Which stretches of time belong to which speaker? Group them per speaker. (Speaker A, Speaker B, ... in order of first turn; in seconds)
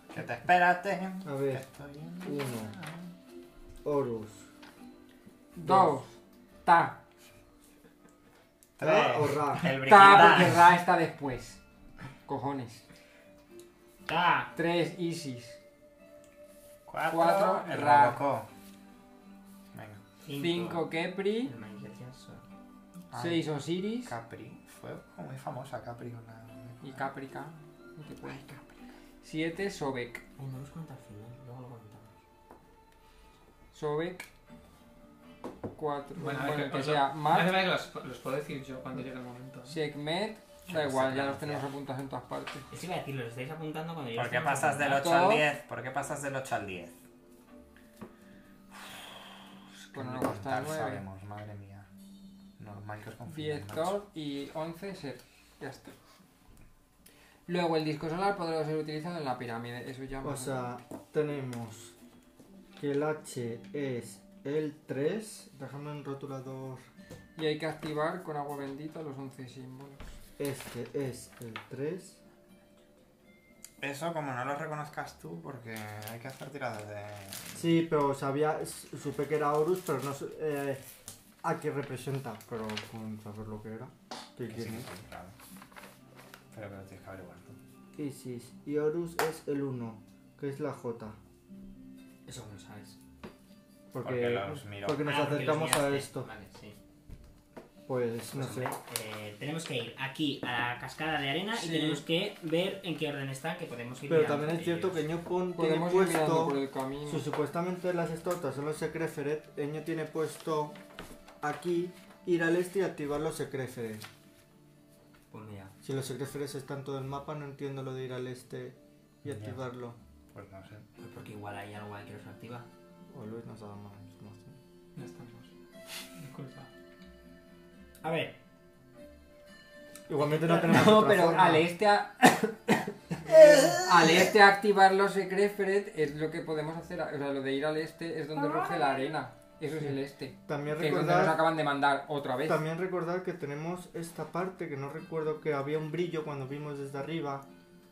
Speaker A: 0.1-3.0, 8.8-10.7, 16.9-18.5, 19.7-20.0, 23.1-23.5, 24.0-27.0, 28.2-28.7, 40.7-41.7, 44.1-47.0, 49.9-51.9, 52.6-54.0, 73.8-77.7, 84.5-85.4, 86.5-87.6, 94.0-95.1, 119.2-119.7, 120.3-120.9
Speaker B: 1.2-1.6, 2.2-2.7, 3.8-4.5, 5.6-6.0, 8.8-9.7, 60.2-62.0, 62.8-66.9, 70.4-72.2, 77.5-80.8, 81.4-84.9, 88.0-91.2, 93.9-96.3, 97.9-98.8, 104.1-110.8, 111.4-114.1, 115.8-120.0, 123.1-124.6, 130.1-131.7, 133.2-134.2, 140.5-141.5, 142.5-147.5
Speaker C: 5.5-7.0, 9.7-11.6, 12.2-12.8, 14.6-15.6, 17.1-18.2, 20.4-21.6, 23.1-24.1, 26.8-28.6, 29.2-30.2, 33.7-34.3, 35.8-37.6, 39.6-42.7, 44.9-45.5, 49.9-51.0, 53.3-56.0, 57.5-60.7, 67.4-70.0, 101.5-102.0, 105.5-107.3, 130.4-132.6, 133.5-142.7
Speaker D: 14.1-14.5, 20.2-20.9, 21.4-22.4, 30.4-32.1, 42.7-45.0, 92.3-93.0, 95.0-96.8, 98.3-105.0, 115.3-115.8, 121.0-122.7, 128.0-128.3
Speaker E: 36.2-39.8, 125.0-125.5, 126.2-126.7